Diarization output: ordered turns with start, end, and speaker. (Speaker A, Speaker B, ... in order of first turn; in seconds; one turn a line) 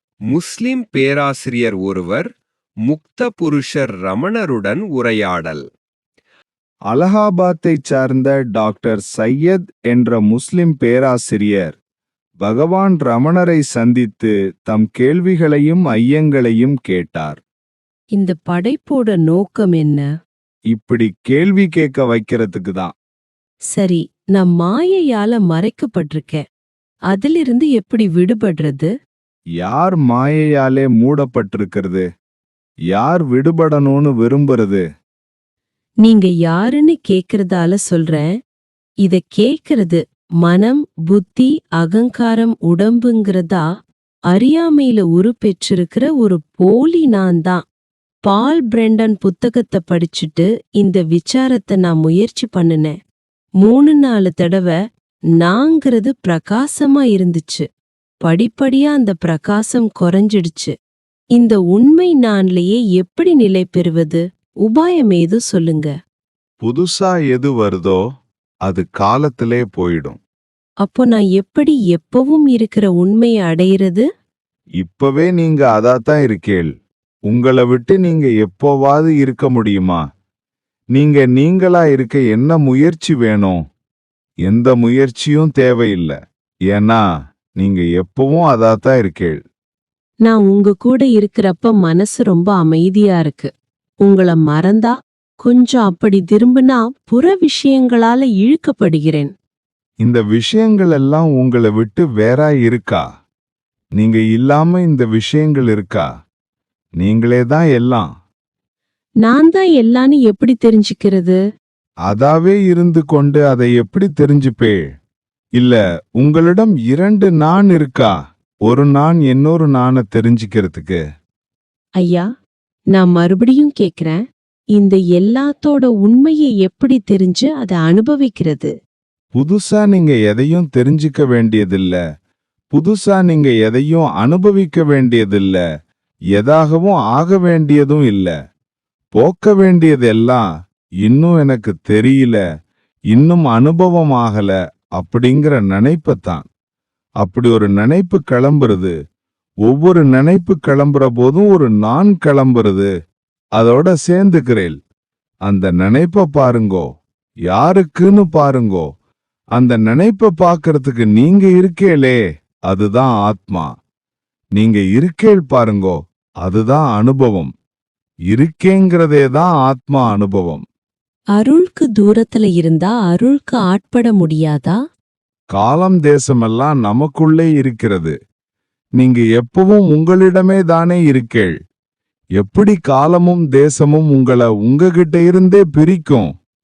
Speaker A: 0.3-2.3
Speaker A: 2.8-5.6
Speaker B: 6.9-11.8
Speaker B: 12.4-17.4
Speaker C: 18.2-20.1
Speaker B: 20.7-22.9
Speaker C: 23.7-26.4
Speaker C: 27.1-28.9
Speaker B: 29.6-32.0
Speaker B: 32.9-34.8
Speaker C: 36.0-38.3
Speaker C: 39.0-43.6
Speaker C: 44.3-47.6
Speaker C: 48.3-52.9
Speaker C: 53.6-54.8
Speaker C: 55.4-57.6
Speaker C: 58.2-60.7
Speaker C: 61.4-65.9
Speaker B: 66.6-68.0
Speaker B: 68.7-70.2
Speaker C: 70.8-74.0
Speaker B: 74.8-76.7
Speaker B: 77.3-80.0
Speaker B: 80.9-83.6
Speaker B: 84.5-86.2
Speaker B: 86.7-87.0
Speaker B: 87.6-89.4
Speaker C: 90.3-93.5
Speaker C: 94.0-99.3
Speaker B: 100.0-103.0
Speaker B: 104.0-106.1
Speaker B: 107.0-108.1
Speaker C: 109.2-111.4
Speaker B: 112.1-114.8
Speaker B: 115.6-118.1
Speaker B: 118.7-121.0
Speaker C: 122.0-122.3
Speaker C: 123.0-124.2
Speaker C: 124.8-128.7
Speaker B: 129.3-132.0
Speaker B: 132.7-135.6
Speaker B: 136.3-138.3
Speaker B: 139.1-140.4
Speaker B: 141.1-142.4
Speaker B: 143.1-146.5
Speaker B: 147.2-148.9
Speaker B: 149.7-152.9
Speaker B: 153.6-154.8
Speaker B: 155.5-156.9
Speaker B: 157.5-158.9
Speaker B: 159.6-163.7
Speaker B: 164.6-167.5
Speaker B: 168.3-170.6
Speaker C: 171.4-174.8
Speaker B: 175.5-178.2
Speaker B: 179.0-181.5
Speaker B: 182.4-186.3